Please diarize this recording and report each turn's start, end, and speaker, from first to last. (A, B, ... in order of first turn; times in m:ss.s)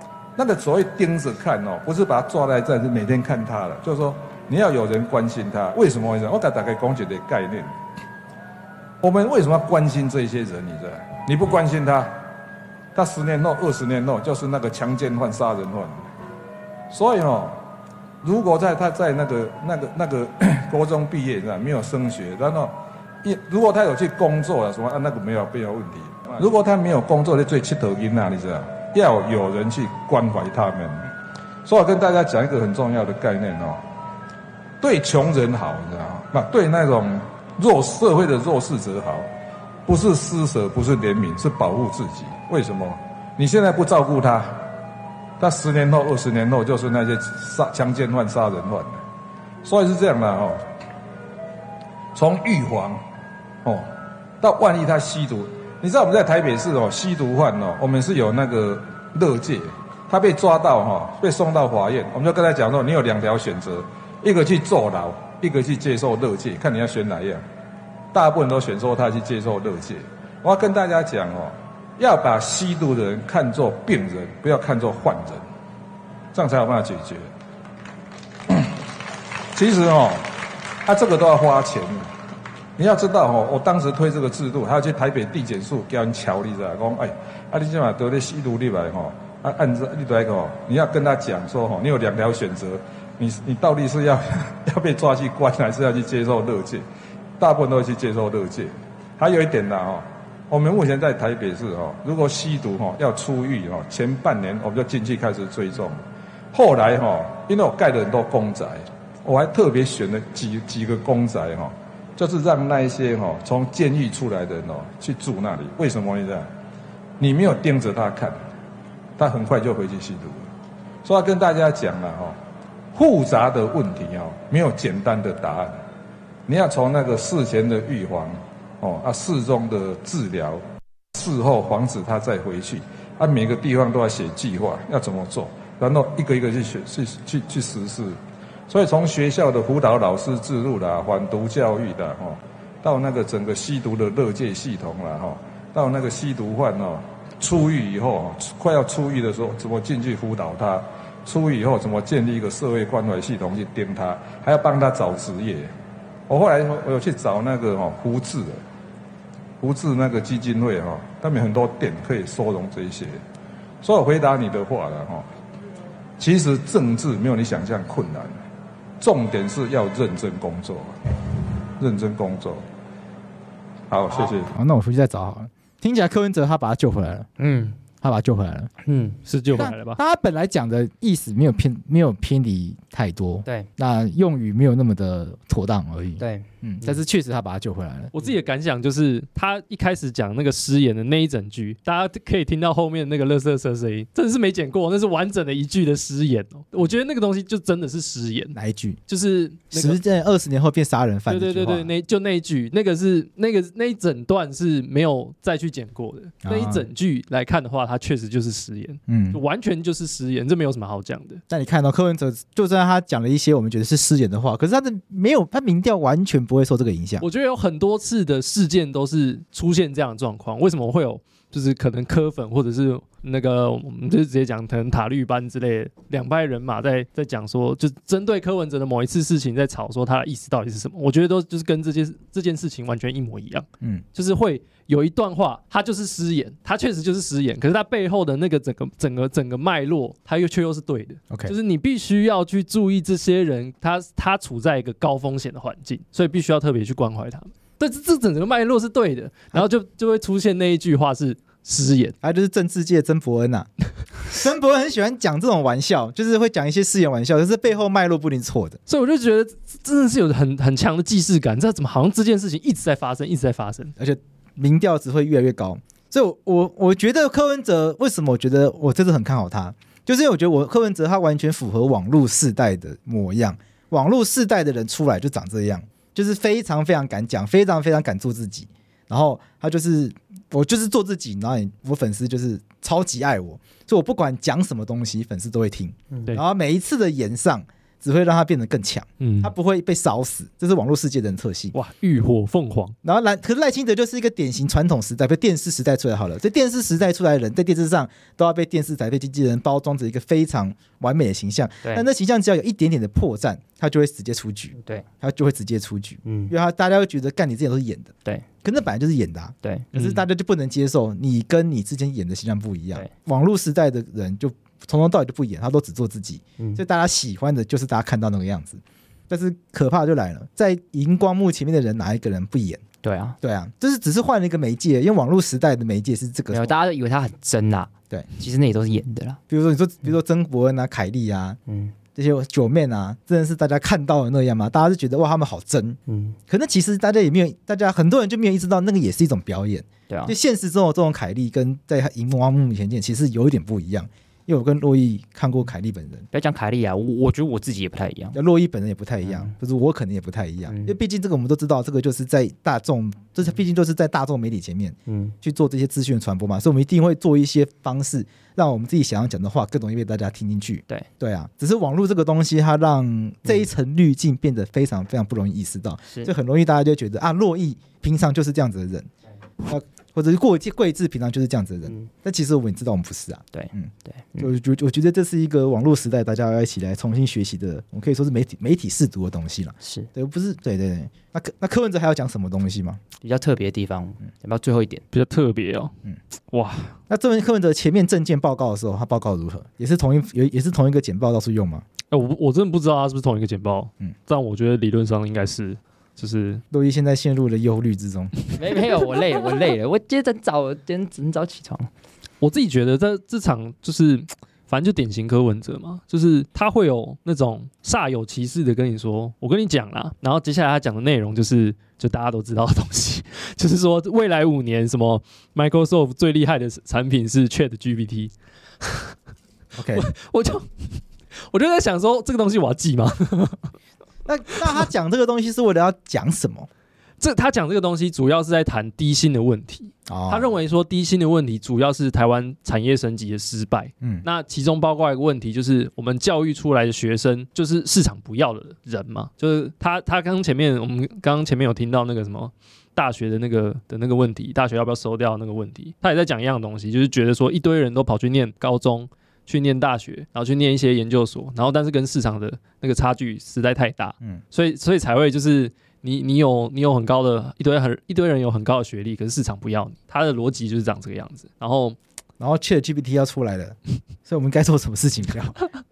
0:00.4-0:07.7 A
0:09.0-0:12.2 A
0:13.0-0:16.0 A
0:16.9-0:17.6 A
0:18.2-0:31.1 A
0:31.6-0:33.8 A
0:34.8-0:39.3 A
0:39.9-0:44.6 A
0:45.4-0:49.0 A
0:49.6-0:50.6 A
0:52.2-0:53.0 A
0:53.6-0:53.9 A
0:54.4-1:07.4 A
1:08.1-1:15.4 A
1:16.3-1:17.3 A
1:18.5-1:18.8 A
1:19.5-1:22.1 A
1:22.8-1:36.8 A
1:37.4-1:46.0 A
1:46.5-1:56.5 A
1:57.2-1:58.4 A
1:59.2-2:00.5 A
2:01.0-2:02.4 A
2:02.9-2:05.7 A
2:06.5-2:10.6 A
2:11.1-2:18.2 A
2:18.7-2:35.7 A
2:36.3-2:38.6 A
2:39.6-2:43.2 A
2:43.8-2:45.3 A
2:46.2-2:48.4 A
2:49.0-2:51.1 A
2:51.8-2:52.6 A
2:53.9-2:54.5 A
2:54.4-2:57.3 B
2:57.4-2:57.8 C
2:58.0-2:58.7 B
2:58.8-2:59.2 C
2:59.2-3:00.0 D
2:59.5-3:08.1 B
3:06.2-3:06.9 C
3:08.1-3:18.6 D
3:18.6-3:19.0 B
3:19.1-3:20.0 D
3:19.7-3:21.9 B
3:21.3-3:31.4 D
3:26.4-3:26.9 B
3:29.1-3:29.4 B
3:31.5-3:37.3 B
3:37.2-4:12.2 D
4:01.3-4:01.6 B
4:12.2-4:13.7 B
4:14.2-4:18.8 B
4:18.9-4:23.9 D
4:24.0-4:51.8 B
4:49.2-4:49.5 D
4:51.7-4:53.0 D
4:53.0-5:22.8 B
5:04.8-5:05.1 C
5:06.2-5:06.5 C
5:09.6-5:10.0 C
5:23.0-5:23.4 C
5:23.4-5:26.8 B
5:26.5-5:29.4 C
5:29.5-5:31.6 B
5:31.7-5:32.0 C
5:32.2-5:46.3 B
5:36.1-5:36.4 C
5:40.1-5:40.4 C
5:46.3-5:48.4 C
5:48.3-6:09.1 B
5:49.2-5:49.5 C
5:50.7-5:50.9 C
5:55.1-5:55.4 C
6:09.6-6:23.0 B
6:13.5-6:14.5 C
6:19.8-6:20.1 C
6:23.2-6:25.0 C
6:25.1-6:26.0 D
6:26.5-6:27.0 D
6:27.1-6:31.8 B
6:32.1-6:36.6 D
6:36.7-6:38.3 B
6:38.5-6:41.9 C
6:42.4-6:59.1 D
6:59.8-7:00.1 B
6:59.9-7:03.7 D
7:04.2-7:06.7 B
7:07.2-7:42.0 D
7:10.1-7:10.5 B
7:42.4-7:45.6 B